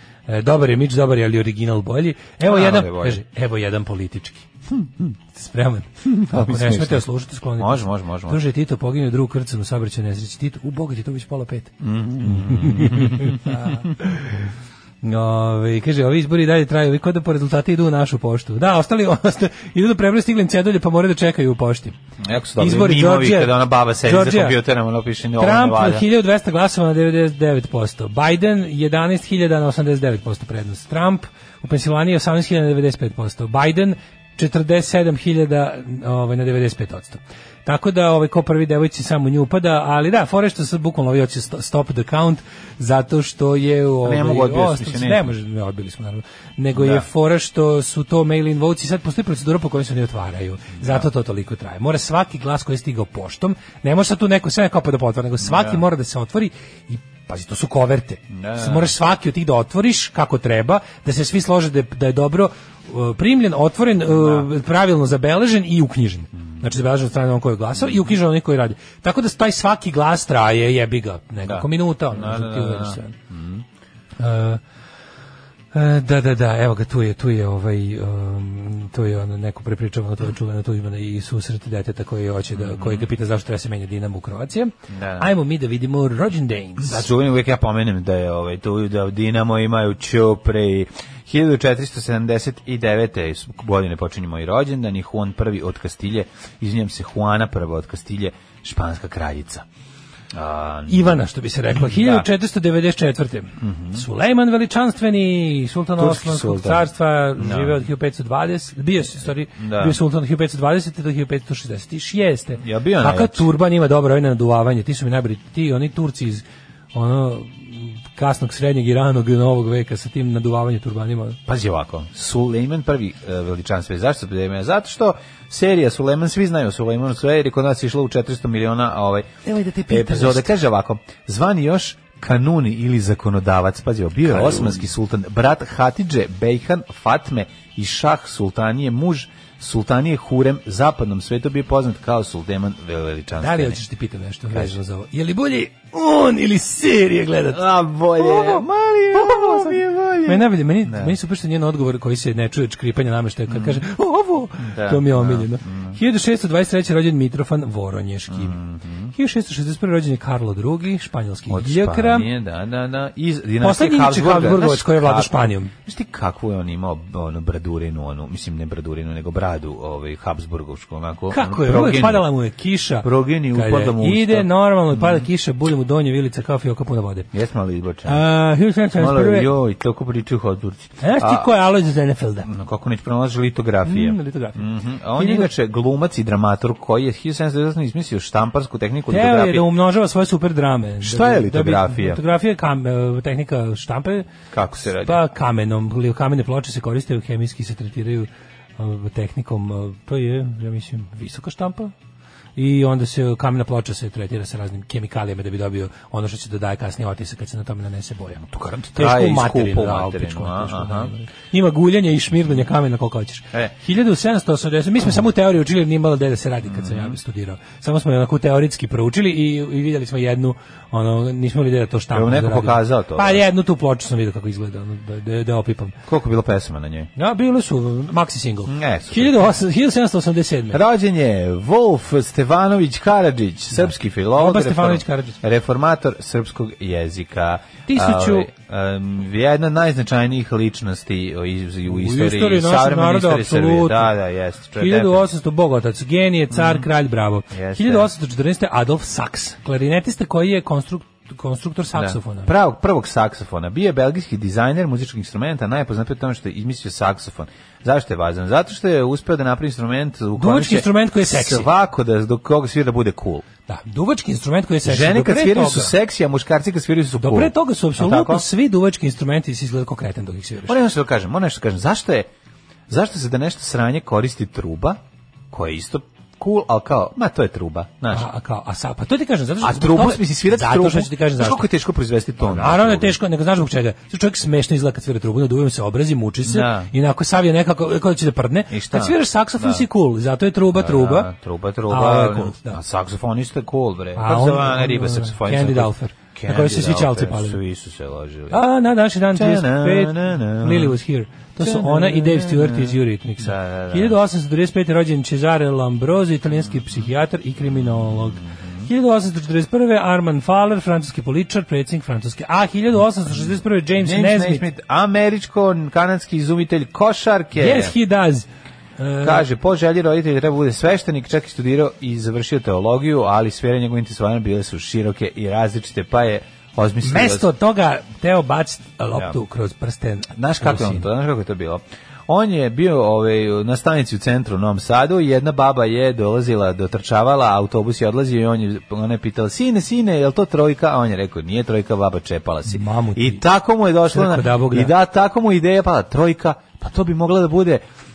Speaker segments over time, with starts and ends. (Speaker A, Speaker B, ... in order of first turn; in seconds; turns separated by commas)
Speaker A: 0.3-4.5, Speaker B: 2.4-3.2, Speaker B: 4.8-5.0, Speaker A: 5.3-14.5, Speaker B: 6.0-7.0, Speaker B: 7.6-8.4, Speaker B: 11.8-13.9, Speaker A: 15.0-21.9, Speaker B: 22.2-26.0, Speaker A: 22.6-24.6, Speaker A: 25.4-73.1, Speaker B: 44.0-45.3, Speaker B: 46.7-47.0, Speaker B: 50.8-51.1, Speaker B: 55.4-55.8, Speaker B: 58.3-58.9, Speaker B: 64.1-64.5, Speaker B: 66.4-66.7, Speaker B: 67.8-68.1, Speaker B: 71.4-73.6, Speaker A: 74.2-74.6, Speaker A: 75.7-87.0, Speaker B: 82.5-83.1, Speaker B: 84.9-85.3, Speaker B: 86.8-99.7, Speaker B: 100.3-101.2, Speaker A: 100.9-116.4, Speaker B: 101.7-102.2, Speaker B: 103.6-104.0, Speaker B: 106.0-107.8, Speaker B: 109.6-110.0, Speaker B: 112.6-113.5, Speaker A: 116.9-121.4, Speaker B: 121.5-129.3, Speaker A: 129.4-130.5, Speaker B: 129.9-143.8, Speaker A: 134.2-134.8, Speaker A: 143.4-147.6, Speaker B: 144.5-144.8, Speaker B: 147.5-151.1, Speaker A: 148.2-158.6, Speaker B: 153.5-153.8, Speaker B: 154.6-156.0, Speaker B: 158.3-159.1, Speaker A: 159.1-162.3, Speaker B: 161.5-172.3, Speaker A: 163.6-165.7, Speaker A: 171.3-177.3, Speaker B: 173.0-175.2, Speaker B: 177.3-178.2, Speaker A: 178.0-179.5, Speaker B: 178.9-181.5, Speaker A: 181.0-182.5, Speaker B: 182.4-189.6, Speaker A: 183.8-185.5, Speaker A: 189.1-194.2, Speaker B: 191.0-192.2, Speaker B: 194.5-195.2, Speaker A: 195.0-201.9, Speaker A: 202.6-208.4, Speaker B: 208.4-211.1, Speaker A: 208.9-225.9, Speaker B: 216.7-217.2, Speaker B: 222.1-223.4, Speaker B: 226.1-227.1, Speaker A: 227.2-230.8, Speaker B: 228.7-229.4, Speaker B: 230.7-245.3, Speaker A: 233.8-235.4, Speaker A: 237.8-238.5, Speaker A: 241.9-244.1, Speaker A: 244.7-252.5, Speaker B: 246.5-246.9, Speaker B: 247.5-248.1, Speaker B: 251.9-263.4, Speaker A: 260.4-261.7, Speaker A: 263.7-265.9, Speaker B: 264.8-268.4, Speaker A: 267.2-270.8, Speaker B: 270.7-272.3, Speaker B: 272.9-275.0, Speaker B: 275.5-278.3, Speaker A: 278.1-281.6, Speaker B: 279.6-283.2, Speaker A: 282.4-291.3, Speaker B: 286.4-286.9, Speaker B: 288.7-289.9, Speaker B: 290.7-298.6, Speaker A: 291.9-292.8, Speaker A: 294.1-297.6, Speaker A: 298.5-314.6, Speaker B: 299.3-301.0, Speaker B: 301.6-304.2, Speaker B: 306.5-307.1, Speaker B: 307.6-308.9, Speaker B: 314.0-317.9, Speaker A: 317.5-318.5, Speaker A: 319.0-319.4, Speaker B: 319.2-327.5, Speaker A: 327.0-331.1, Speaker B: 330.3-347.8, Speaker A: 342.7-343.4, Speaker A: 344.1-344.9